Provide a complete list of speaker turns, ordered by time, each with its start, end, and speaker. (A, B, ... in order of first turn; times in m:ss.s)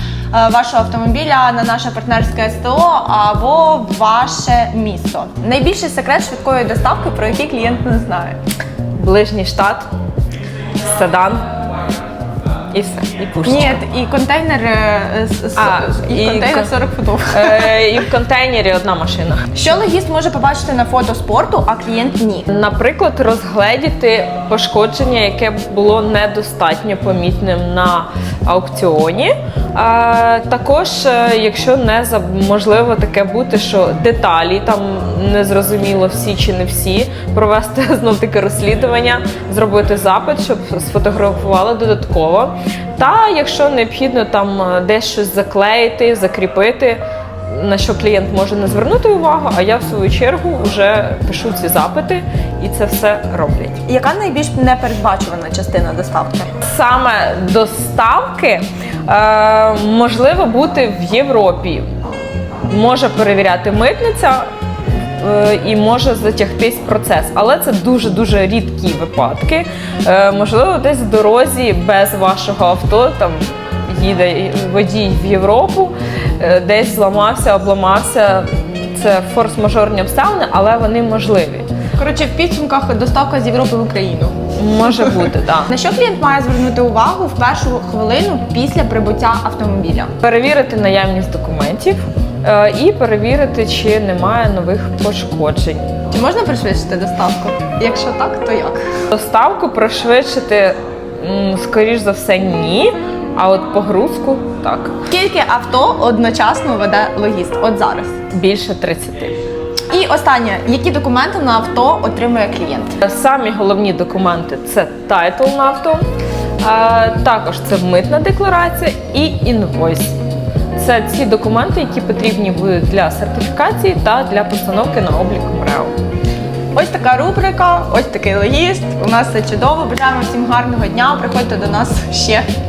0:00.3-0:08.4 A
0:09.0-0:09.9 B
0:10.8-0:11.4 B
0:12.7-0:13.8 B
0:13.4-0:17.9 A
0:15.6-0:16.8 B
0:17.3-0:19.6 B
0:19.5-0:22.5 A
0:22.5-0:53.8 B
0:53.9-0:56.5 A
0:56.6-1:01.8 B
1:02.7-1:04.5 B
1:05.2-1:21.7 B
1:22.0-1:24.4 A
1:24.6-1:25.7 B
1:24.9-1:30.1 A
1:30.2-1:35.9 B
1:36.1-1:38.8 A
1:39.1-1:45.0 B
1:45.1-1:48.1 A
1:48.3-1:49.3 B
1:49.9-1:53.0 A
1:53.0-1:56.0 B
1:56.6-2:00.2 B
2:00.8-2:05.9 B
2:06.7-2:12.4 A